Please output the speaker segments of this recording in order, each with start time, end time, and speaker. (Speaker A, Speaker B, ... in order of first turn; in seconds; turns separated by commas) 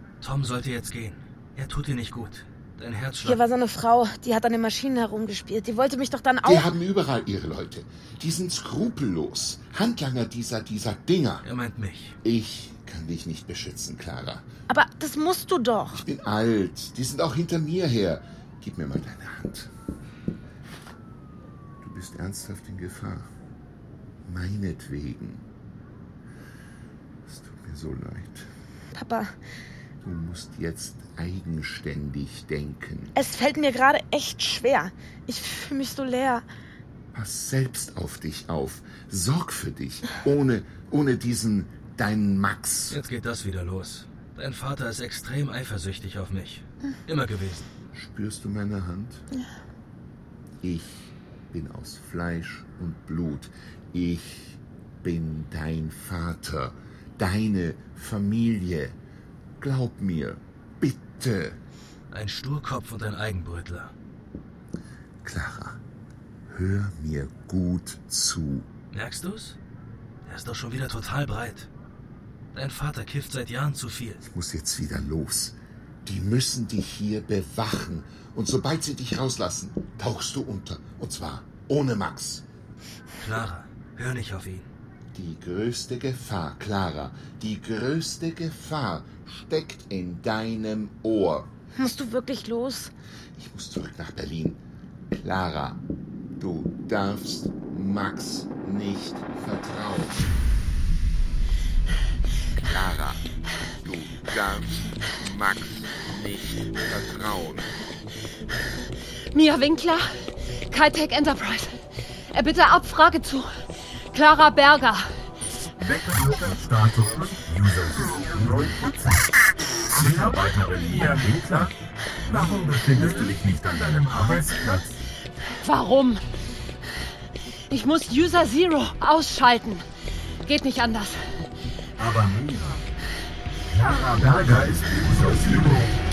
Speaker A: 0.2-3.4, Speaker B: 3.2-6.7, Speaker C: 6.4-11.5, Speaker A: 11.4-12.2, Speaker C: 12.2-14.5, Speaker B: 14.7-16.0, Speaker C: 15.9-19.7, Speaker C: 21.8-23.3, Speaker C: 24.2-25.4, Speaker C: 27.2-28.5, Speaker B: 28.9-29.3, Speaker C: 30.0-33.1, Speaker B: 33.1-36.5, Speaker C: 37.1-43.0, Speaker A: 42.9-47.7, Speaker C: 47.9-49.2, Speaker C: 50.6-59.0, Speaker C: 59.6-61.6, Speaker A: 62.1-63.9, Speaker C: 65.2-65.8, Speaker C: 66.5-68.7, Speaker A: 68.9-69.6, Speaker A: 70.2-71.7, Speaker A: 72.5-74.2, Speaker C: 74.2-82.4, Speaker A: 83.2-84.7, Speaker C: 85.1-91.5, Speaker B: 91.8-92.9, Speaker C: 93.4-95.8, Speaker C: 96.4-100.2, Speaker C: 102.7-103.2, Speaker C: 103.8-107.7, Speaker D: 109.3-110.2, Speaker D: 110.7-113.5, Speaker D: 114.1-115.1, Speaker E: 115.8-119.3, Speaker E: 119.9-121.7, Speaker E: 122.2-125.0, Speaker D: 125.6-126.2, Speaker D: 127.7-129.8, Speaker D: 130.4-131.2, Speaker E: 132.0-132.8, Speaker E: 133.7-135.9